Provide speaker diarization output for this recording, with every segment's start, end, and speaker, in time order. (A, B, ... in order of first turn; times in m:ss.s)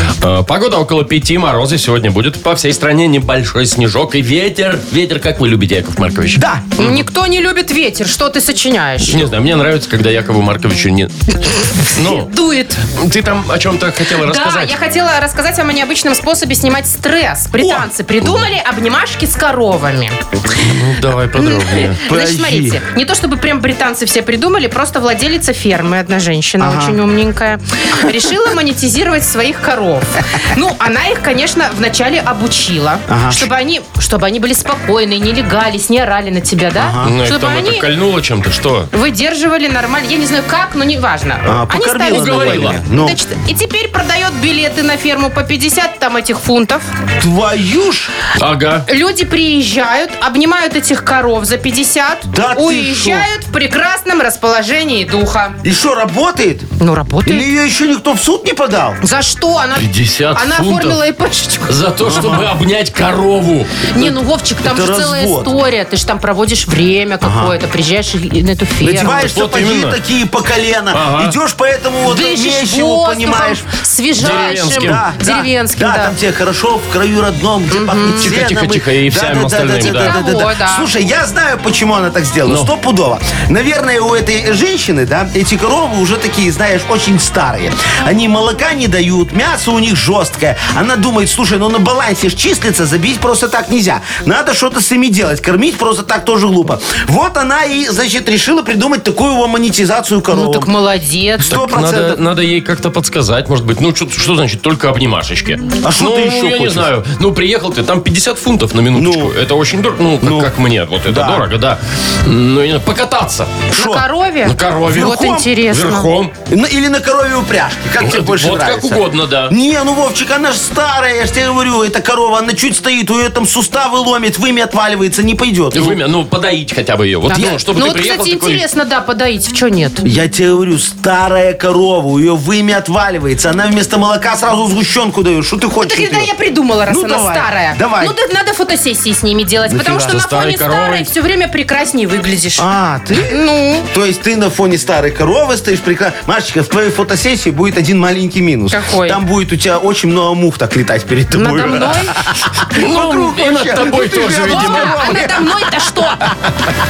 0:00.2-0:07.0 A
0:06.3-0:06.6 B
0:06.8-0:09.3 C
0:09.0-0:12.3 A
0:11.9-0:12.8 C
0:12.8-0:14.7 A
0:14.2-0:20.2 C
0:17.6-0:17.9 B
0:20.6-0:22.0 A
0:21.4-0:37.8 C
0:22.0-0:22.8 B
0:26.6-0:27.0 B
0:33.1-0:33.5 B
0:36.8-0:37.1 B
0:37.0-0:38.9 A
0:38.9-0:46.9 C
0:41.4-0:43.2 B
0:42.1-0:42.8 A
0:47.2-0:48.1 B
0:48.4-0:48.8 A
0:48.9-0:55.6 C
0:52.3-0:53.3 B
0:55.6-0:56.7 B
0:56.8-0:57.5 C
0:57.2-0:59.0 B
0:59.0-1:01.8 C
0:59.8-1:01.0 A
1:01.7-1:03.8 A
1:02.0-1:02.5 B
1:03.9-1:09.3 C
1:04.0-1:05.5 B
1:07.2-1:07.5 B
1:08.8-1:13.6 B
1:09.2-1:10.0 A
1:10.9-1:11.4 A
1:12.0-1:16.2 C
1:14.2-1:15.0 A
1:14.2-1:40.7 B
1:17.7-1:18.3 C
1:18.2-1:20.2 A
1:19.8-1:20.9 C
1:22.4-1:22.7 A
1:40.3-1:41.7 C
1:41.4-1:42.2 B
1:41.5-1:53.6 A
1:45.8-1:46.9 B
1:48.9-1:49.3 B
1:50.2-1:50.5 B
1:51.0-1:51.4 B
1:53.7-1:54.0 B
1:53.7-1:56.1 C
1:54.4-1:56.3 A
1:54.9-1:55.5 B
1:56.5-2:06.0 B
1:58.0-1:59.5 A
2:05.7-2:08.6 A
2:07.3-2:10.0 C
2:10.0-2:16.3 B
2:15.8-2:22.7 C
2:16.9-2:18.2 B
2:19.7-2:20.2 B
2:20.1-2:21.1 A
2:22.6-2:36.3 B
2:23.3-2:23.9 C
2:28.7-2:29.2 C
2:31.3-2:32.2 C
2:32.7-2:35.3 A
2:34.4-2:36.3 C